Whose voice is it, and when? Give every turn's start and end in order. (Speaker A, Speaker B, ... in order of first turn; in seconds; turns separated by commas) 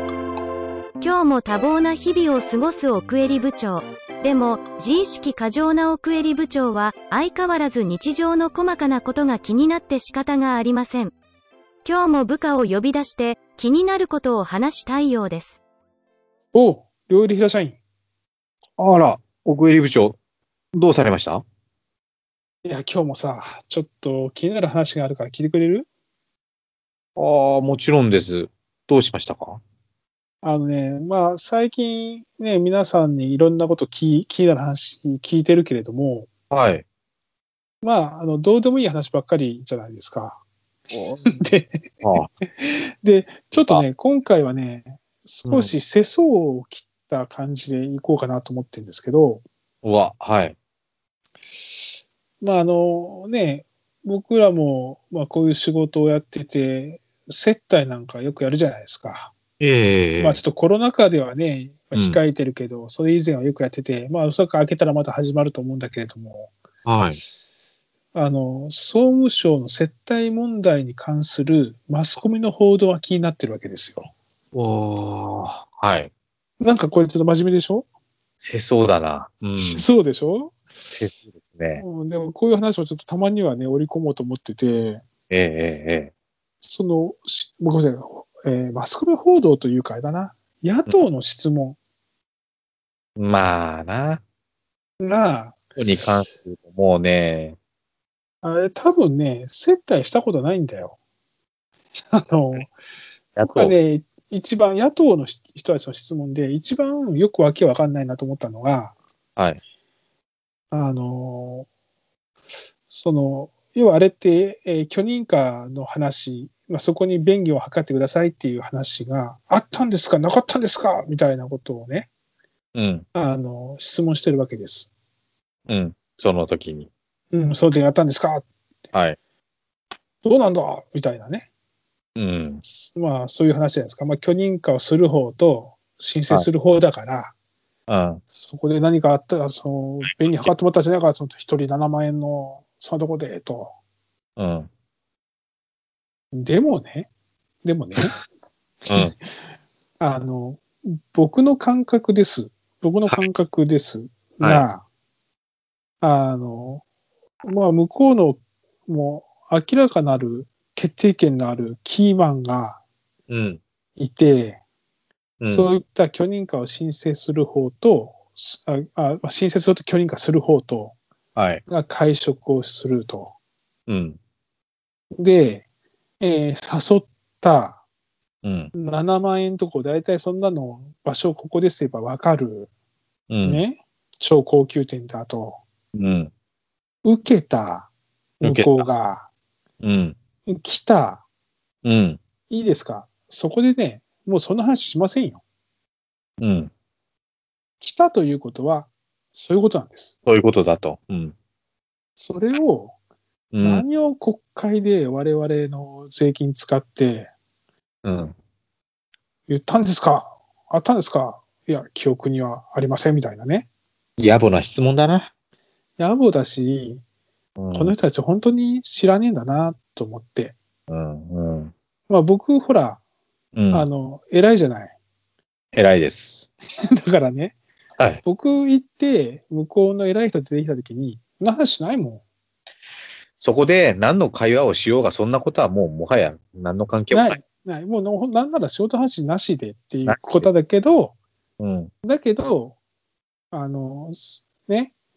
Speaker A: 1.0-11.2, Speaker A: 11.8-15.6, Speaker B: 16.5-17.8, Speaker C: 18.8-20.2, Speaker C: 20.7-21.4, Speaker B: 22.6-25.9, Speaker C: 27.2-29.6, Speaker B: 30.4-36.3, Speaker C: 36.5-36.9, Speaker B: 37.8-40.4, Speaker C: 40.9-41.4, Speaker B: 41.4-41.9, Speaker C: 42.0-42.3, Speaker B: 42.6-49.4, Speaker C: 43.5-43.8, Speaker C: 45.5-45.7, Speaker C: 49.8-50.6, Speaker B: 52.4-59.3, Speaker C: 59.6-60.4, Speaker B: 60.2-66.5, Speaker C: 61.9-62.2, Speaker C: 66.8-67.2, Speaker B: 68.1-74.1, Speaker C: 74.5-76.1, Speaker B: 76.6-77.9, Speaker C: 78.4-79.9, Speaker B: 79.6-80.6, Speaker C: 80.9-81.8, Speaker B: 81.8-85.0, Speaker C: 85.3-86.1, Speaker B: 86.6-91.8, Speaker C: 93.2-94.2, Speaker B: 95.0-95.7, Speaker C: 95.8-97.6, Speaker B: 98.4-101.0, Speaker B: 102.1-102.8, Speaker C: 103.4-103.8, Speaker B: 103.5-109.0, Speaker B: 110.7-111.7, Speaker B: 112.9-122.1, Speaker C: 122.8-123.1, Speaker B: 123.1-124.9, Speaker C: 125.7-126.9, Speaker B: 127.3-128.5, Speaker B: 130.2-131.5, Speaker C: 132.2-132.6, Speaker B: 132.7-137.3, Speaker C: 137.9-138.2, Speaker B: 138.3-143.7, Speaker C: 140.0-140.5, Speaker C: 144.4-144.7, Speaker B: 146.3-147.1, Speaker B: 147.6-148.2, Speaker B: 148.9-149.1, Speaker B: 150.0-154.8, Speaker C: 154.4-154.7, Speaker B: 156.0-156.8, Speaker B: 157.4-162.8, Speaker C: 163.3-163.6, Speaker B: 164.0-164.6, Speaker C: 165.4-165.7, Speaker B: 165.5-171.0, Speaker C: 171.3-171.6, Speaker B: 171.7-173.3, Speaker C: 173.9-174.2, Speaker B: 175.2-175.7, Speaker B: 176.2-177.8, Speaker C: 178.4-178.7, Speaker B: 178.8-182.7, Speaker C: 183.3-183.6, Speaker B: 183.4-185.6, Speaker C: 185.9-186.3, Speaker B: 187.0-187.9, Speaker B: 188.4-189.3, Speaker C: 188.4-188.9, Speaker C: 189.8-190.2, Speaker B: 190.5-191.2, Speaker C: 191.8-192.2, Speaker B: 192.5-195.4, Speaker C: 196.4-196.7, Speaker B: 197.8-200.2, Speaker C: 200.3-201.3, Speaker B: 202.2-202.9, Speaker C: 203.5-203.8, Speaker B: 203.6-207.3, Speaker C: 208.0-208.4, Speaker B: 209.5-213.7, Speaker C: 214.2-215.3, Speaker B: 216.0-217.0, Speaker C: 217.6-217.9, Speaker B: 217.7-220.6, Speaker C: 220.9-221.7, Speaker B: 222.1-223.0, Speaker C: 223.6-223.9, Speaker B: 223.7-224.9, Speaker C: 225.7-226.5, Speaker B: 227.0-227.6, Speaker B: 228.2-232.2, Speaker C: 233.4-237.4, Speaker B: 237.1-241.2, Speaker C: 240.1-240.5, Speaker C: 241.6-241.9, Speaker B: 242.0-242.8, Speaker B: 243.5-244.9